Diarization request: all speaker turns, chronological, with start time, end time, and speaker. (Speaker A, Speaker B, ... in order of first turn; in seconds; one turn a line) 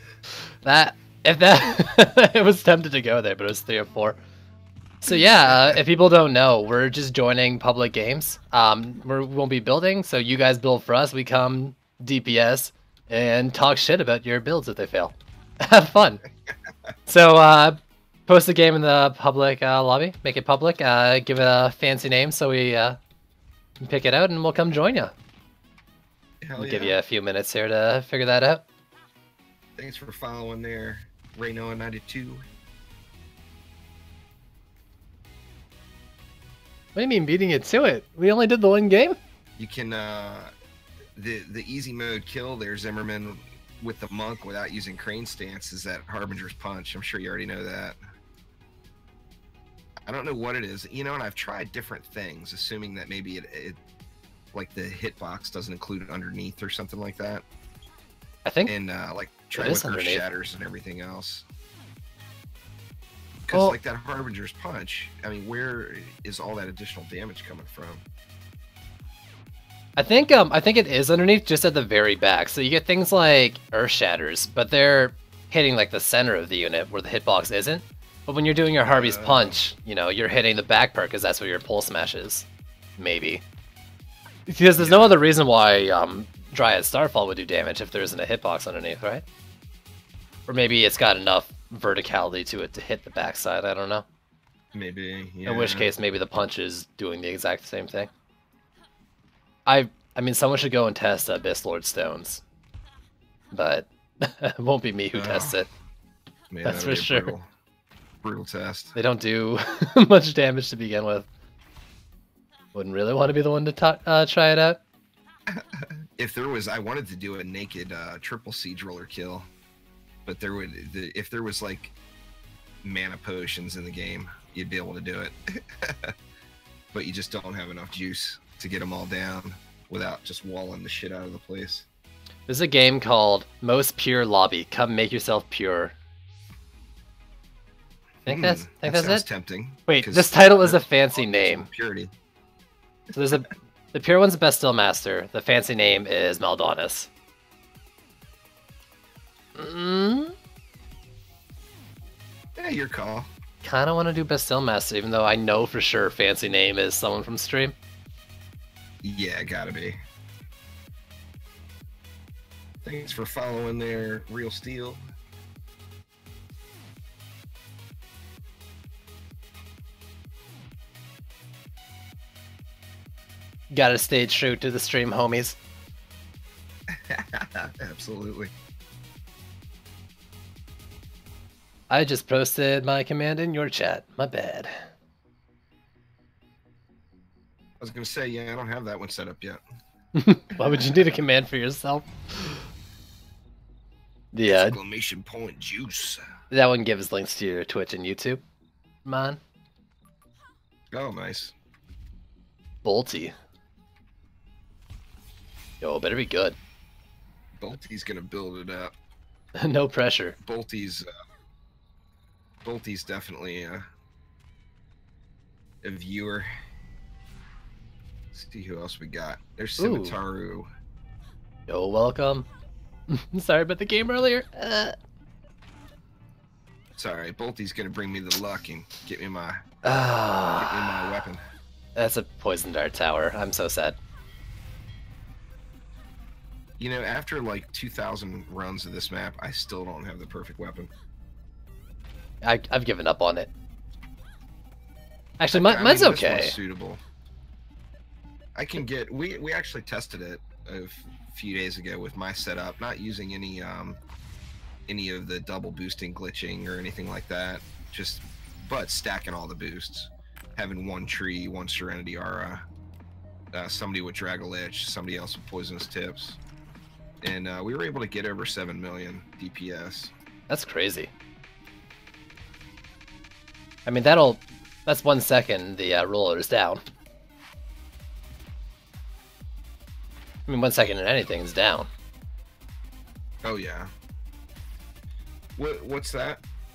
Speaker A: 0.6-4.2
Speaker A: 5.0-16.2
Speaker B: 5.1-5.8
Speaker A: 17.1-23.0
Speaker A: 23.8-25.1
Speaker B: 26.4-26.9
Speaker A: 26.6-28.6
Speaker B: 29.8-32.4
Speaker A: 36.9-39.2
Speaker B: 39.6-40.5
Speaker B: 41.1-48.0
Speaker B: 50.0-53.8
Speaker B: 54.5-57.4
Speaker A: 58.4-58.7
Speaker B: 58.7-61.4
Speaker A: 59.5-60.2
Speaker B: 63.5-68.0
Speaker A: 70.0-82.5
Speaker B: 78.8-79.5
Speaker A: 83.0-83.4
Speaker A: 84.5-89.2
Speaker B: 84.8-85.2
Speaker A: 90.5-94.0
Speaker B: 94.7-95.9
Speaker A: 95.5-98.1
Speaker A: 99.7-102.4
Speaker A: 103.5-105.7
Speaker B: 105.1-105.6
Speaker B: 106.5-107.5
Speaker A: 106.6-107.3
Speaker B: 108.2-109.0
Speaker A: 109.0-111.3
Speaker A: 112.7-114.8
Speaker B: 115.5-119.5
Speaker B: 120.2-121.9
Speaker B: 122.8-126.1
Speaker B: 126.9-131.9
Speaker A: 132.5-135.9
Speaker A: 138.2-139.2
Speaker B: 138.2-142.1
Speaker A: 139.9-141.7
Speaker A: 143.1-147.1
Speaker A: 149.5-150.3
Speaker B: 152.6-153.3
Speaker A: 153.6-157.7
Speaker B: 159.0-160.0
Speaker B: 162.8-165.0
Speaker A: 173.7-175.6
Speaker B: 176.9-178.5
Speaker A: 181.9-184.8
Speaker B: 187.8-189.6
Speaker A: 190.1-192.6
Speaker B: 190.6-191.0
Speaker A: 194.3-194.8
Speaker B: 194.5-196.2
Speaker A: 196.5-198.4
Speaker A: 199.0-199.4
Speaker B: 200.9-201.5
Speaker A: 202.8-203.3
Speaker A: 205.8-206.6
Speaker B: 207.6-208.9
Speaker A: 209.6-210.4
Speaker B: 210.4-211.1
Speaker B: 212.6-213.9
Speaker B: 215.8-216.5
Speaker B: 218.3-220.7
Speaker A: 219.8-220.2
Speaker A: 221.7-222.5
Speaker A: 223.1-224.9
Speaker B: 227.0-229.7
Speaker A: 229.8-231.2
Speaker B: 230.4-231.4
Speaker A: 231.9-234.0
Speaker B: 236.8-240.9
Speaker A: 242.4-243.5
Speaker A: 245.4-246.6
Speaker B: 245.5-247.0
Speaker B: 248.6-254.0
Speaker B: 254.9-262.6
Speaker B: 263.5-266.4
Speaker B: 267.2-270.1
Speaker A: 270.5-271.1
Speaker A: 273.9-276.8
Speaker A: 280.5-281.9
Speaker B: 283.4-283.9
Speaker B: 285.6-286.4